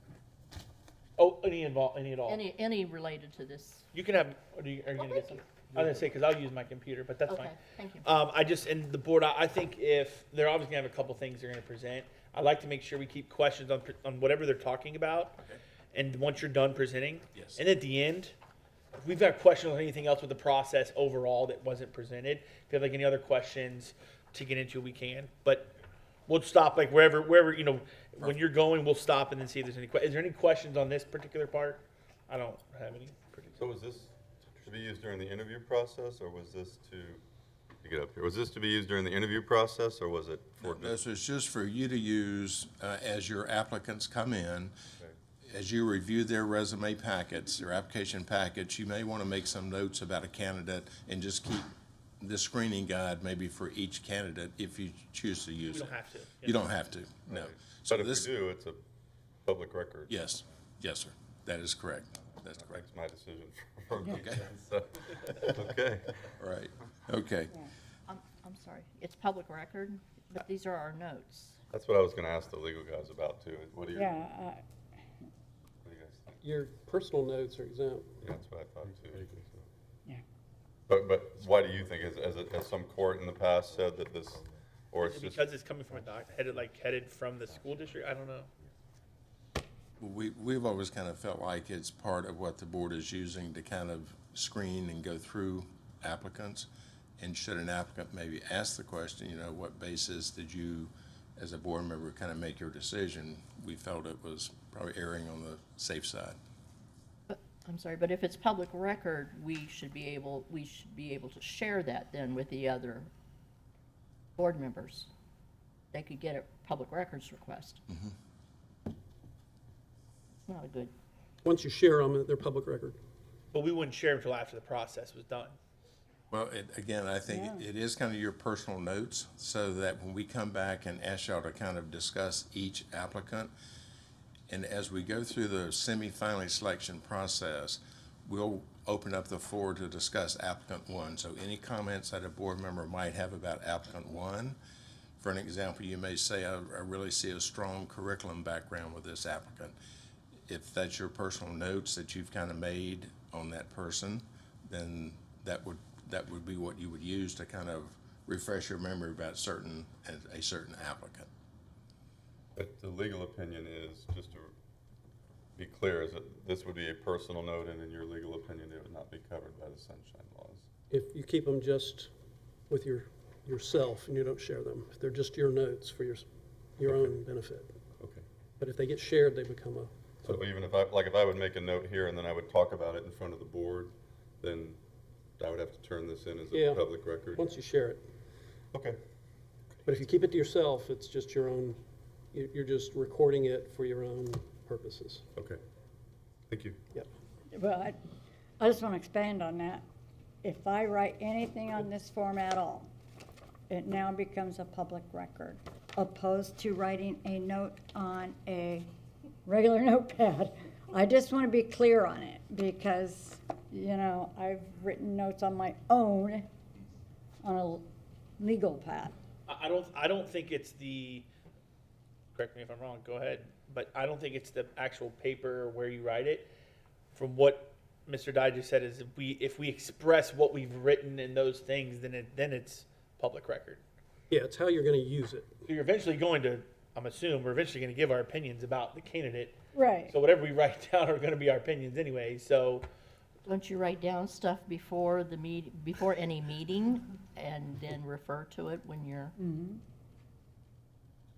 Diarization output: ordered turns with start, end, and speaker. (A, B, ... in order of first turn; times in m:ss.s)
0:01.2-0:02.4 A
0:02.3-0:03.8 B
0:03.9-0:15.4 A
0:05.0-0:05.4 B
0:07.3-0:08.1 B
0:15.9-0:18.4 A
0:19.0-0:25.8 A
0:26.3-0:33.6 A
0:33.6-0:37.2 C
0:37.8-0:41.0 C
0:40.6-0:44.7 D
0:45.5-0:58.3 D
0:55.7-0:56.7 A
0:57.3-0:58.8 C
0:59.4-1:00.1 C
1:00.1-1:02.8 D
1:02.6-1:06.1 C
1:04.1-1:04.4 D
1:06.4-1:07.6 D
1:08.1-1:11.6 B
1:11.7-1:14.2 C
1:14.0-1:14.6 E
1:15.8-1:16.4 C
1:16.4-1:18.2 F
1:18.2-1:19.3 C
1:20.9-1:25.5 C
1:25.0-1:28.5 A
1:30.0-1:36.7 D
1:37.2-1:46.4 D
1:47.3-1:53.1 B
1:54.4-1:55.1 B
1:55.9-1:57.8 B
2:00.5-2:00.9 B
2:01.4-2:03.0 F
2:03.5-2:05.6 A
2:06.3-2:13.5 D
2:07.3-2:07.6 E
2:14.5-2:24.6 D
2:25.2-2:29.8 D
2:30.5-2:41.3 D
2:42.6-2:44.5 C
2:45.6-2:50.7 C
2:50.9-2:52.1 F
2:52.7-2:56.3 F
2:56.8-2:57.8 F
2:56.8-2:57.2 C
2:58.0-2:58.2 C
2:58.6-3:00.4 F
3:00.2-3:04.8 C
3:05.4-3:07.5 C
3:06.5-3:08.1 F
3:08.7-3:09.0 C
3:09.9-3:11.8 F
3:12.3-3:15.2 F
3:16.5-3:16.8 C
3:17.5-3:18.0 E
3:18.6-3:19.8 E
3:20.4-3:22.9 E
3:23.7-3:28.9 E
3:29.5-3:36.5 E
3:37.4-3:37.8 E
3:38.4-3:39.2 E
3:39.5-3:41.3 A
3:42.4-3:46.5 A
3:47.2-3:53.8 A
3:54.3-3:55.5 F
3:55.7-3:59.6 A
3:59.7-4:00.1 E
4:00.1-4:02.9 A
4:03.5-4:09.3 B
4:09.4-4:09.8 E